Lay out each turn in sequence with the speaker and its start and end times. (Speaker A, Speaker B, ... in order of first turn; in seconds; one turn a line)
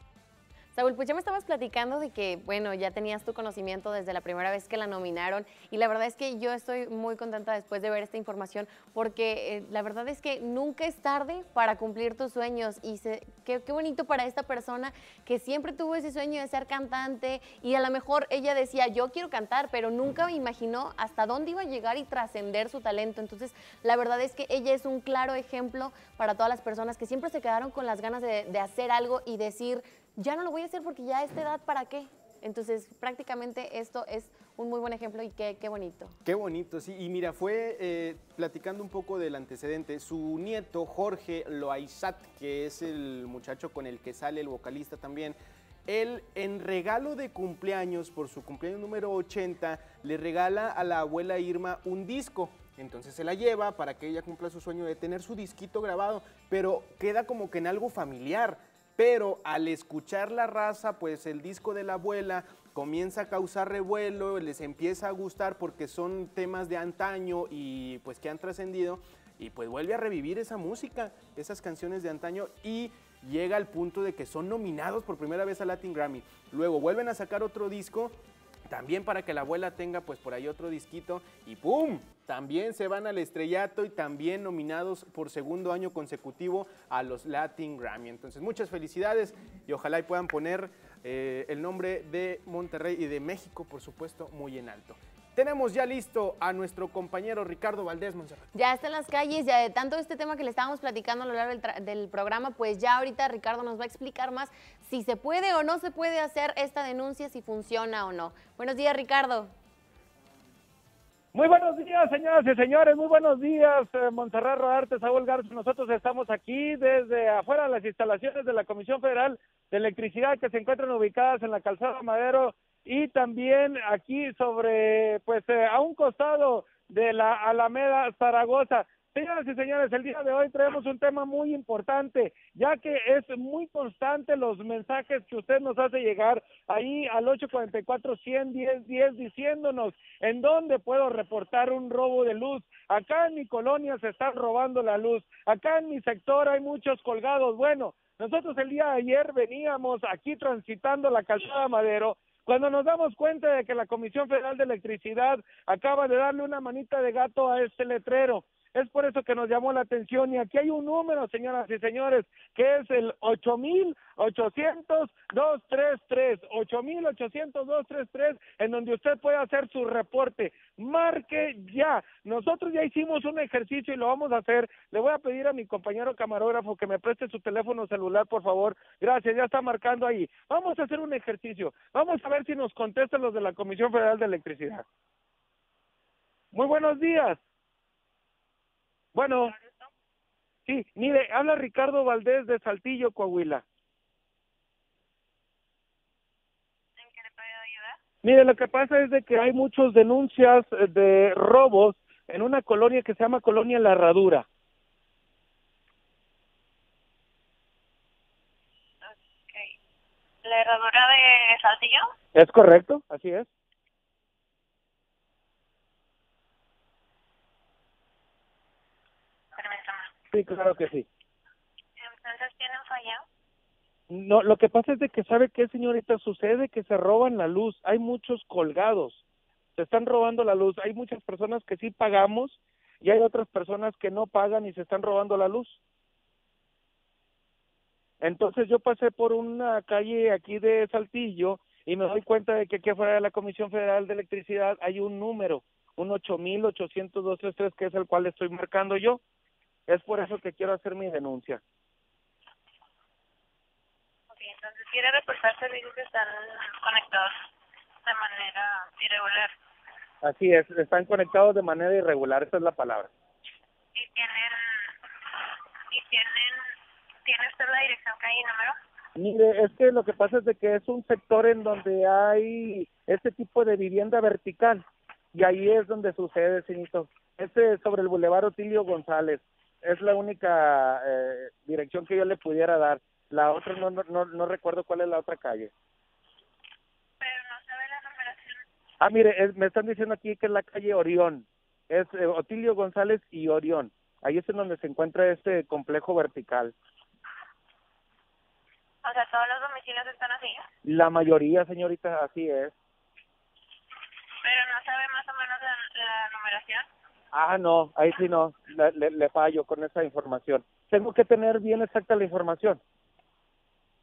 Speaker A: 0.8-36.2
Speaker B: 36.2-78.2
Speaker B: 78.7-98.5
Speaker A: 98.5-109.5
Speaker C: 111.3-184.8
Speaker C: 186.5-187.4
Speaker C: 189.2-189.5
Speaker D: 189.4-189.7
Speaker C: 190.7-193.6
Speaker D: 197.0-198.0
Speaker C: 198.2-204.4
Speaker D: 209.1-209.7
Speaker D: 210.4-212.1
Speaker C: 212.4-213.5
Speaker D: 219.6-220.1
Speaker C: 220.3-221.1
Speaker D: 222.0-223.2
Speaker C: 224.1-229.2
Speaker C: 229.8-235.8
Speaker C: 238.2-249.2
Speaker C: 249.9-251.6
Speaker D: 254.3-257.4
Speaker D: 258.1-259.5
Speaker C: 260.2-263.1
Speaker D: 264.0-264.8
Speaker D: 265.9-266.6
Speaker D: 267.3-268.8
Speaker C: 269.2-274.8
Speaker C: 275.4-285.7
Speaker D: 287.2-288.6
Speaker C: 289.0-296.7
Speaker D: 299.0-300.7
Speaker C: 300.9-302.7
Speaker D: 304.4-306.9
Speaker C: 307.3-312.8